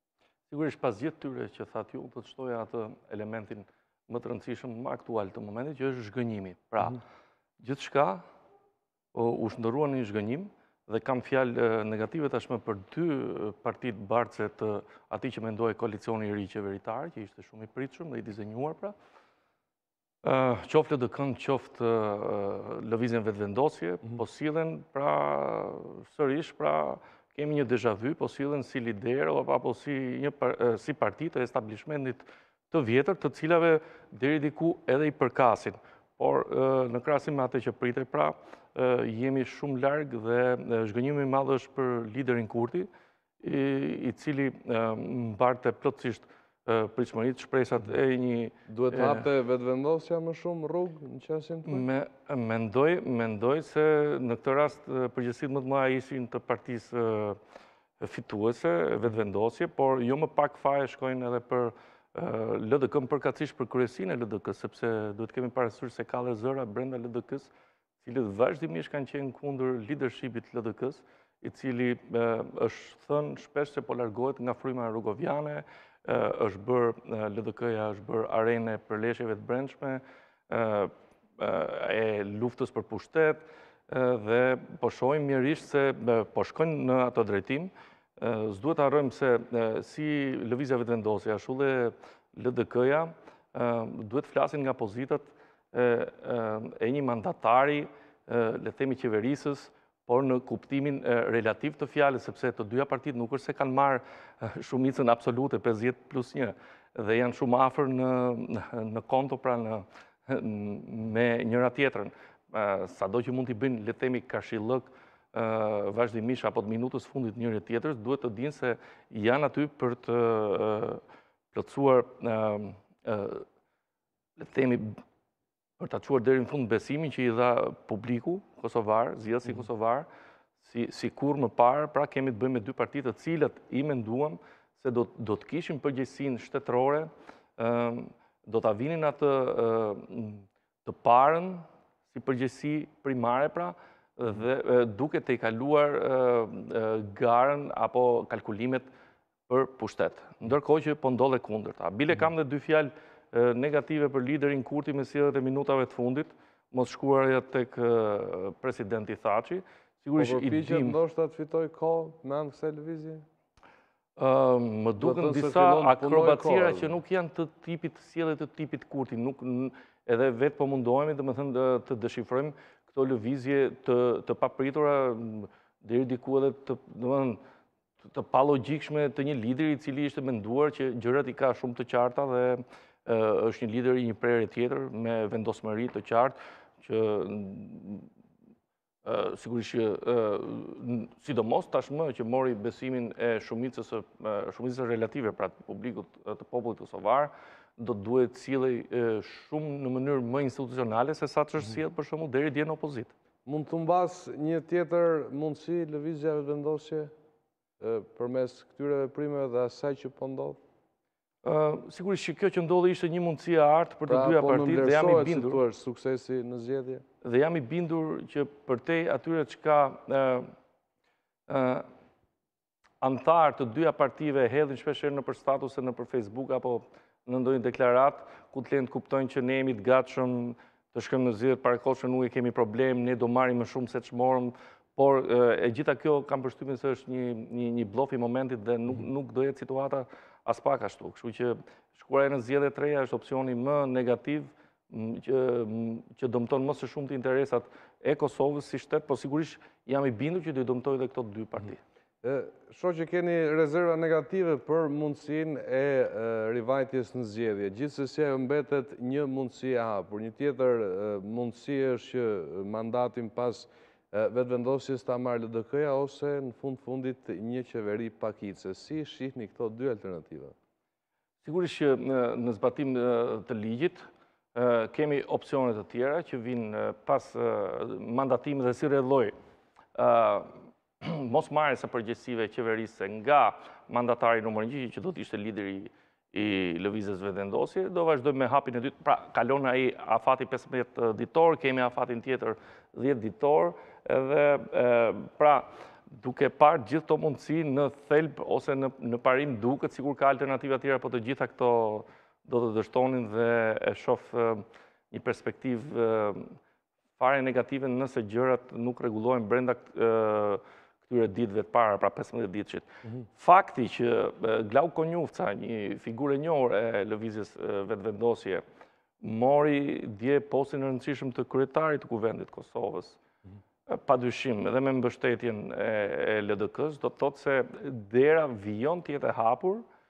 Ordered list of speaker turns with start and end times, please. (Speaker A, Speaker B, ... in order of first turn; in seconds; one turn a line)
Speaker A: 0.5-7.0
Speaker A: 7.6-8.2
Speaker A: 9.1-18.9
Speaker A: 20.2-42.9
Speaker A: 43.4-49.3
Speaker B: 48.7-51.9
Speaker A: 51.6-57.4
Speaker A: 58.0-123.5
Speaker A: 124.4-125.0
Speaker A: 125.8-130.1
Speaker A: 130.6-148.9
Speaker A: 149.5-161.0
Speaker B: 160.2-163.2
Speaker A: 164.2-177.4
Speaker B: 165.0-166.9
Speaker A: 178.0-188.1
Speaker A: 189.0-203.1
Speaker B: 203.5-207.1
Speaker B: 207.8-210.6
Speaker A: 211.4-215.6
Speaker B: 214.1-217.0
Speaker A: 217.2-220.5
Speaker A: 221.5-221.9
Speaker A: 223.0-251.8
Speaker B: 252.2-270.5
Speaker A: 271.4-279.3
Speaker A: 279.9-306.6
Speaker A: 307.2-318.6
Speaker A: 319.2-323.2
Speaker A: 323.9-329.9